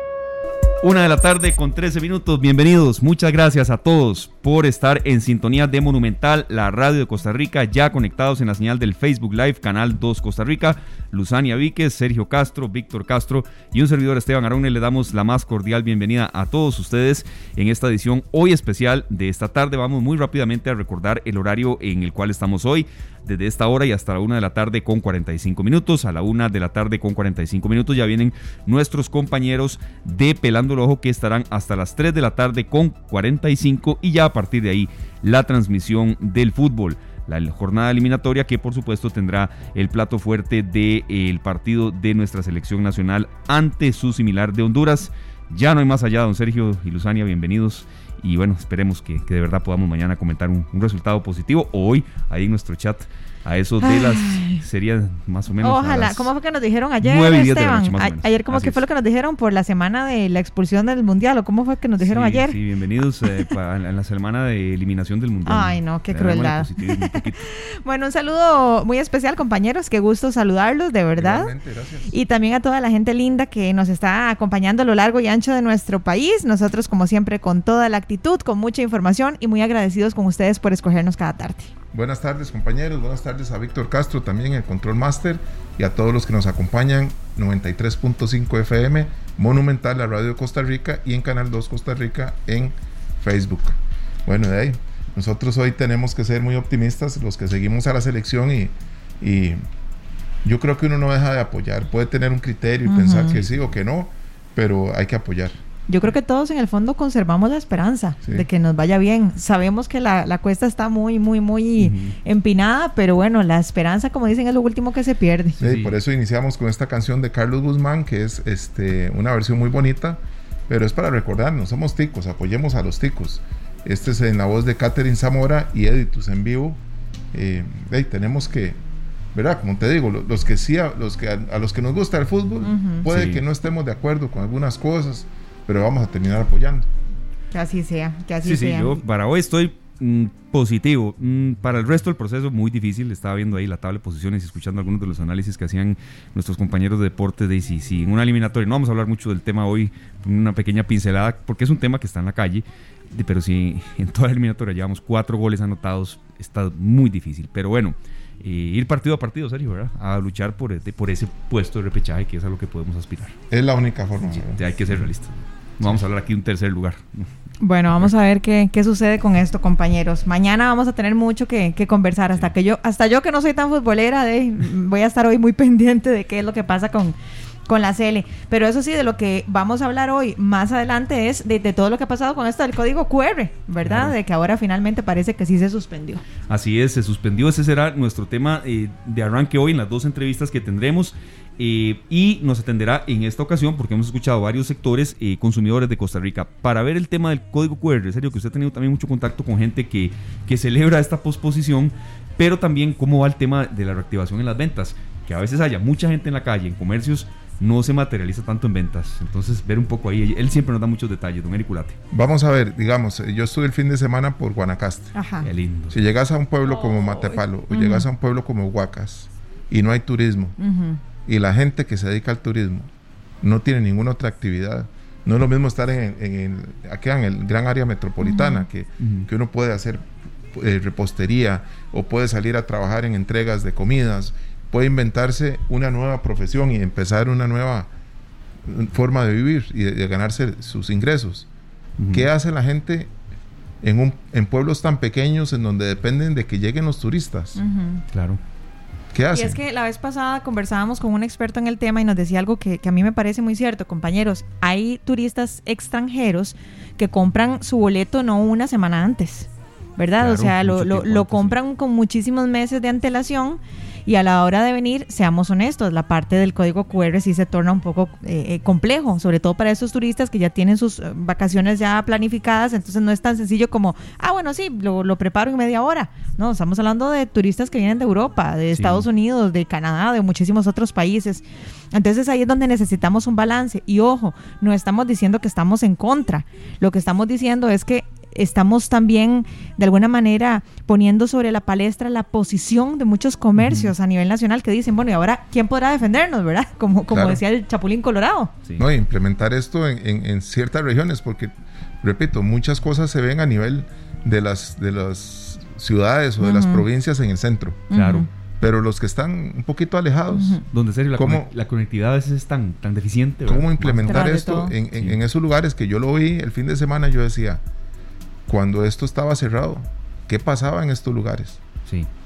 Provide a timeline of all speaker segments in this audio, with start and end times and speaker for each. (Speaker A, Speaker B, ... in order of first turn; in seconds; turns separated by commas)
Speaker A: 0.8-56.3, Speaker B: 53.8-54.6, Speaker B: 55.6-62.6, Speaker A: 57.0-58.8, Speaker A: 62.0-67.4, Speaker B: 65.5-71.5, Speaker C: 71.2-72.1, Speaker B: 72.1-81.7, Speaker C: 81.9-99.6, Speaker C: 100.4-105.6, Speaker B: 102.9-103.4, Speaker A: 103.3-103.7, Speaker B: 105.9-115.6, Speaker A: 111.8-112.2, Speaker A: 115.6-116.0, Speaker C: 115.6-126.8, Speaker C: 127.3-128.8, Speaker C: 129.3-136.9, Speaker B: 132.6-133.1, Speaker A: 133.1-133.4, Speaker B: 137.5-139.0, Speaker A: 138.4-163.3, Speaker C: 163.5-164.7, Speaker A: 164.4-167.3, Speaker B: 167.6-177.2, Speaker B: 177.7-186.2, Speaker A: 183.8-184.1, Speaker A: 186.5-212.0, Speaker C: 212.1-215.2, Speaker B: 215.2-215.5, Speaker A: 215.4-216.0, Speaker C: 215.9-220.6, Speaker B: 216.7-218.1, Speaker B: 220.6-221.0, Speaker C: 221.2-222.9, Speaker C: 223.4-237.9, Speaker B: 228.2-228.7, Speaker A: 229.0-229.3, Speaker C: 238.7-241.5, Speaker A: 242.0-242.3, Speaker C: 242.1-243.1, Speaker C: 243.8-247.6, Speaker B: 247.6-248.0, Speaker A: 248.1-248.4, Speaker C: 249.1-249.6, Speaker B: 249.3-298.5, Speaker A: 260.2-261.6, Speaker A: 278.7-279.1, Speaker A: 293.6-293.9, Speaker C: 297.1-297.4, Speaker C: 298.8-307.9, Speaker B: 306.4-306.9, Speaker B: 307.9-308.3, Speaker A: 307.9-308.3, Speaker C: 308.6-310.6, Speaker B: 310.3-310.6, Speaker A: 310.7-314.3, Speaker C: 311.2-311.5, Speaker C: 313.5-317.6, Speaker B: 314.1-314.7, Speaker C: 318.5-321.6